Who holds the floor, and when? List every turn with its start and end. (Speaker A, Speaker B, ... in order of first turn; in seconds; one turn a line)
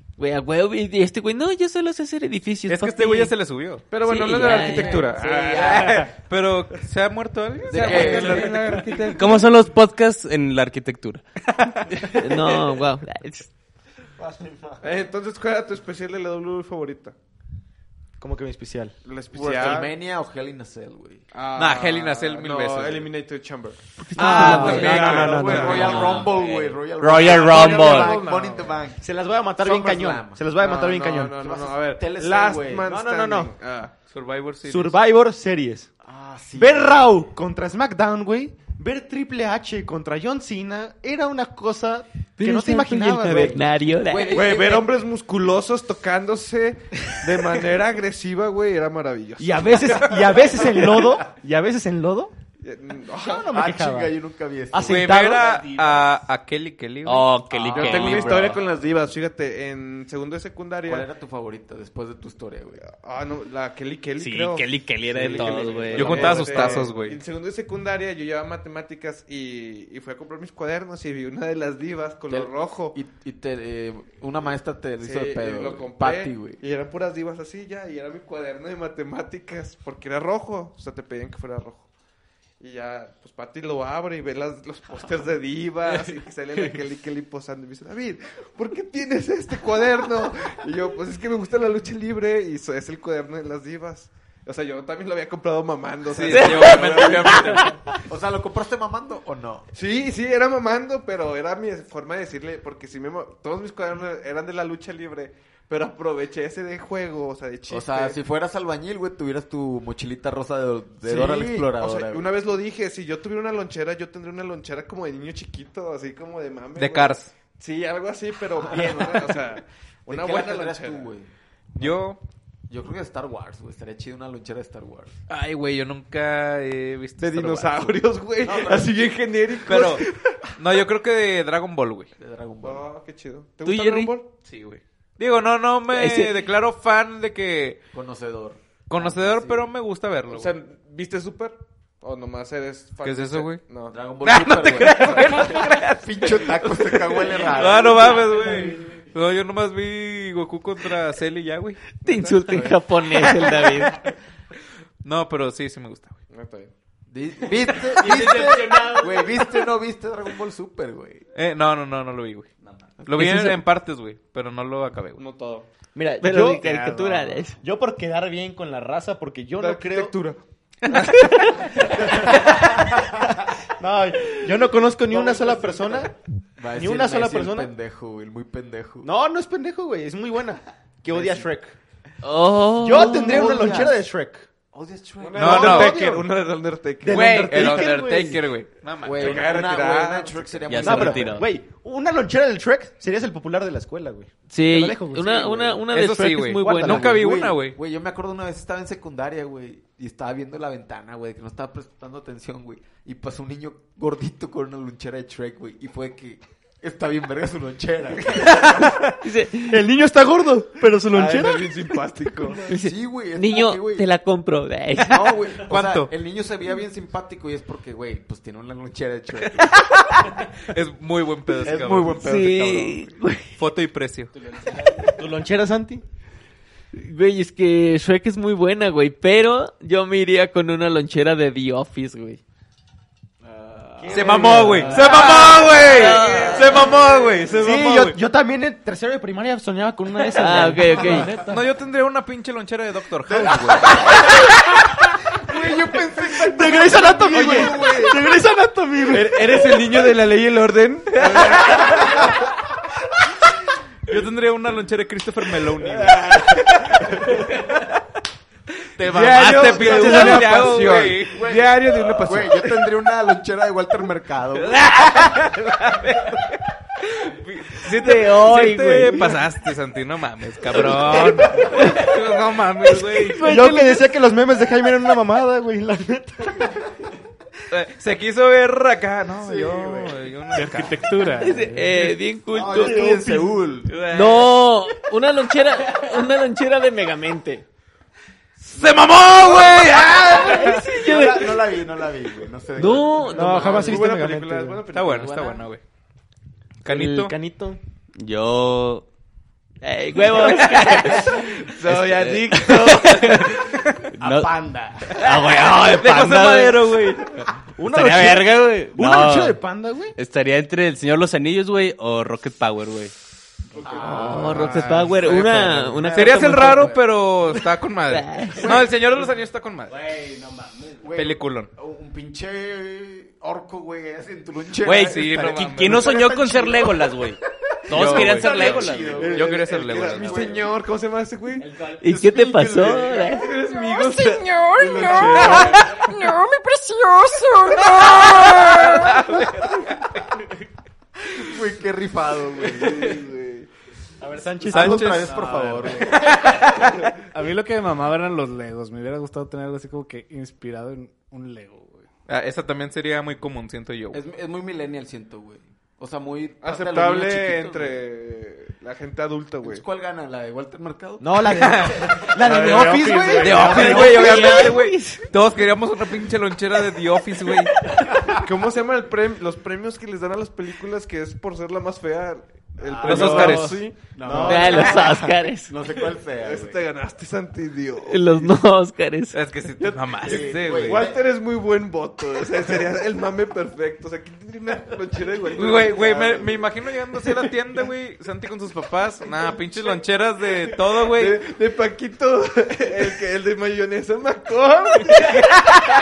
Speaker A: 0.2-3.3
Speaker B: 2.7-3.9
Speaker C: 3.9-6.1
Speaker A: 4.0-5.3
Speaker D: 4.7-5.9
Speaker B: 5.5-8.5
Speaker C: 7.6-9.5
Speaker E: 7.7-8.6
Speaker D: 8.2-11.2
Speaker A: 12.0-13.5
Speaker F: 14.2-14.8
Speaker C: 14.8-17.1
Speaker F: 18.2-19.9
Speaker C: 19.0-19.9
Speaker E: 19.3-21.2
Speaker C: 21.3-26.1
Speaker B: 21.6-23.1
Speaker A: 24.0-24.9
Speaker F: 24.1-26.2
Speaker E: 24.2-30.4
Speaker B: 24.7-24.9
Speaker D: 25.9-28.2
Speaker C: 27.2-28.3
Speaker F: 27.2-31.4
Speaker G: 28.2-28.6
Speaker C: 30.6-33.9
Speaker E: 31.3-33.0
Speaker F: 32.8-33.5
Speaker B: 34.1-35.0
Speaker F: 34.6-35.9
Speaker E: 36.0-37.0
Speaker F: 36.5-43.6
Speaker A: 42.4-44.4
Speaker E: 44.0-45.0
Speaker C: 44.3-50.1
Speaker F: 49.4-52.3
Speaker C: 52.6-53.5
Speaker E: 53.2-55.5
Speaker F: 53.4-54.1
Speaker F: 54.7-55.6
Speaker B: 54.8-57.3
Speaker D: 55.4-56.0
Speaker D: 57.0-58.6
Speaker E: 57.5-58.6
Speaker C: 57.7-61.0
Speaker E: 60.8-62.8
Speaker C: 62.9-73.0
Speaker D: 64.2-66.7
Speaker E: 65.2-66.1
Speaker B: 65.9-67.2
Speaker E: 72.3-76.6
Speaker C: 75.0-81.9
Speaker C: 82.6-97.8
Speaker B: 96.1-97.8
Speaker A: 96.3-97.0
Speaker E: 98.0-99.7
Speaker C: 99.7-108.2
Speaker E: 107.7-112.4
Speaker C: 111.0-121.1
Speaker B: 116.8-117.3
Speaker E: 118.5-122.0
Speaker B: 121.8-122.2
Speaker E: 122.7-125.1
Speaker B: 125.3-128.0
Speaker C: 127.2-130.4
Speaker E: 128.4-128.9
Speaker B: 129.7-132.1
Speaker E: 132.2-132.8
Speaker C: 132.6-134.3
Speaker A: 133.6-134.1
Speaker B: 134.4-137.8
Speaker A: 135.9-136.3
Speaker E: 137.9-139.7
Speaker B: 138.9-140.6
Speaker C: 140.3-143.9
Speaker B: 143.0-143.6
Speaker E: 143.9-148.4
Speaker B: 144.2-151.8
Speaker C: 144.8-145.3
Speaker C: 152.0-152.8
Speaker A: 152.0-154.0
Speaker B: 155.0-156.2
Speaker C: 156.3-156.7
Speaker E: 157.1-161.2
Speaker D: 157.9-159.3
Speaker B: 161.3-162.5
Speaker B: 163.1-165.2
Speaker A: 163.1-163.6
Speaker C: 165.2-165.7
Speaker F: 165.9-170.4
Speaker A: 166.2-167.6
Speaker C: 169.6-172.0
Speaker F: 171.9-176.1
Speaker E: 175.1-179.1
Speaker F: 176.7-177.7
Speaker F: 179.0-181.7
Speaker E: 181.1-181.5
Speaker A: 182.2-183.6
Speaker F: 182.8-184.5
Speaker E: 182.9-184.0
Speaker E: 184.7-185.9
Speaker C: 185.2-187.8
Speaker B: 185.4-186.0
Speaker F: 185.4-186.3
Speaker F: 187.0-188.4
Speaker B: 187.1-189.7
Speaker E: 189.0-191.4
Speaker C: 189.1-190.8
Speaker D: 190.7-191.5
Speaker F: 190.7-195.8
Speaker A: 194.5-197.1
Speaker B: 195.9-197.8
Speaker F: 196.6-197.0
Speaker E: 196.8-208.9
Speaker A: 209.2-209.8
Speaker F: 209.6-211.9
Speaker C: 211.1-212.7
Speaker A: 212.7-215.2
Speaker E: 212.7-214.1
Speaker E: 215.1-219.7
Speaker B: 215.6-216.1
Speaker B: 219.4-224.3
Speaker E: 221.6-222.8
Speaker A: 222.2-223.5
Speaker F: 224.8-226.0
Speaker A: 226.9-232.4
Speaker F: 234.0-235.8
Speaker B: 234.1-238.2
Speaker C: 235.2-237.4
Speaker A: 235.6-236.9
Speaker F: 237.5-241.6
Speaker A: 240.3-241.3
Speaker B: 241.1-244.4
Speaker E: 243.3-244.4
Speaker E: 245.3-248.2
Speaker F: 246.4-249.9
Speaker C: 247.2-248.2
Speaker C: 249.1-252.2
Speaker B: 251.2-252.3
Speaker E: 251.8-252.2
Speaker B: 254.1-258.0
Speaker B: 259.0-261.5
Speaker E: 259.0-265.5
Speaker C: 259.0-262.7
Speaker B: 264.6-273.4
Speaker A: 267.8-269.4
Speaker A: 271.4-272.1
Speaker A: 272.9-274.1
Speaker F: 273.3-276.8
Speaker B: 277.7-281.5
Speaker E: 279.3-280.3
Speaker G: 280.5-282.1
Speaker A: 281.4-283.0
Speaker E: 282.5-284.0
Speaker F: 282.7-283.6
Speaker B: 283.9-284.6
Speaker A: 284.1-287.6
Speaker B: 288.6-290.8
Speaker A: 290.0-291.6
Speaker E: 290.6-293.9
Speaker A: 292.8-293.9
Speaker F: 293.3-294.8
Speaker C: 293.5-295.6
Speaker B: 294.9-295.8
Speaker B: 296.8-297.4
Speaker F: 296.9-297.8
Speaker D: 298.1-299.1
Speaker A: 299.8-301.5
Speaker B: 300.4-301.1
Speaker C: 301.3-303.7
Speaker D: 301.9-302.5
Speaker A: 302.5-303.5
Speaker F: 304.2-305.2
Speaker D: 304.2-304.6
Speaker A: 305.2-307.0
Speaker B: 305.2-307.5
Speaker F: 307.7-310.1
Speaker D: 307.9-309.6
Speaker D: 310.1-313.1
Speaker E: 313.7-317.0
Speaker C: 313.8-315.3
Speaker A: 314.0-317.0
Speaker B: 314.3-315.1
Speaker B: 316.1-320.0
Speaker A: 318.1-318.7
Speaker E: 318.5-319.3
Speaker D: 319.9-321.1
Speaker E: 321.0-330.7
Speaker B: 321.1-321.7
Speaker D: 324.8-329.3
Speaker B: 324.8-326.1
Speaker B: 327.9-330.6
Speaker C: 328.6-331.7
Speaker D: 331.6-332.0
Speaker E: 332.0-333.4
Speaker A: 332.0-333.5
Speaker C: 333.3-336.1
Speaker H: 333.6-339.2
Speaker E: 334.8-336.1
Speaker B: 338.2-340.3
Speaker E: 341.2-343.2
Speaker C: 342.6-343.7
Speaker F: 344.2-345.9
Speaker E: 344.6-346.4
Speaker B: 344.7-345.5
Speaker B: 346.1-346.9
Speaker G: 347.3-352.1
Speaker B: 352.3-354.2
Speaker E: 354.1-358.0
Speaker C: 356.6-359.8
Speaker E: 359.6-361.9
Speaker F: 361.2-364.7
Speaker B: 361.5-362.1
Speaker C: 362.4-363.5
Speaker G: 362.4-364.0
Speaker E: 363.0-364.0
Speaker B: 363.4-367.9
Speaker A: 363.8-365.2
Speaker C: 368.3-375.0
Speaker E: 372.8-373.4
Speaker B: 373.0-373.9
Speaker F: 373.0-375.3
Speaker E: 374.1-376.8
Speaker A: 374.4-375.7
Speaker C: 376.4-378.5
Speaker A: 378.1-379.4
Speaker B: 379.3-381.0
Speaker C: 379.8-386.4
Speaker E: 380.2-381.2
Speaker B: 385.6-391.4
Speaker E: 385.9-386.6
Speaker C: 391.1-395.6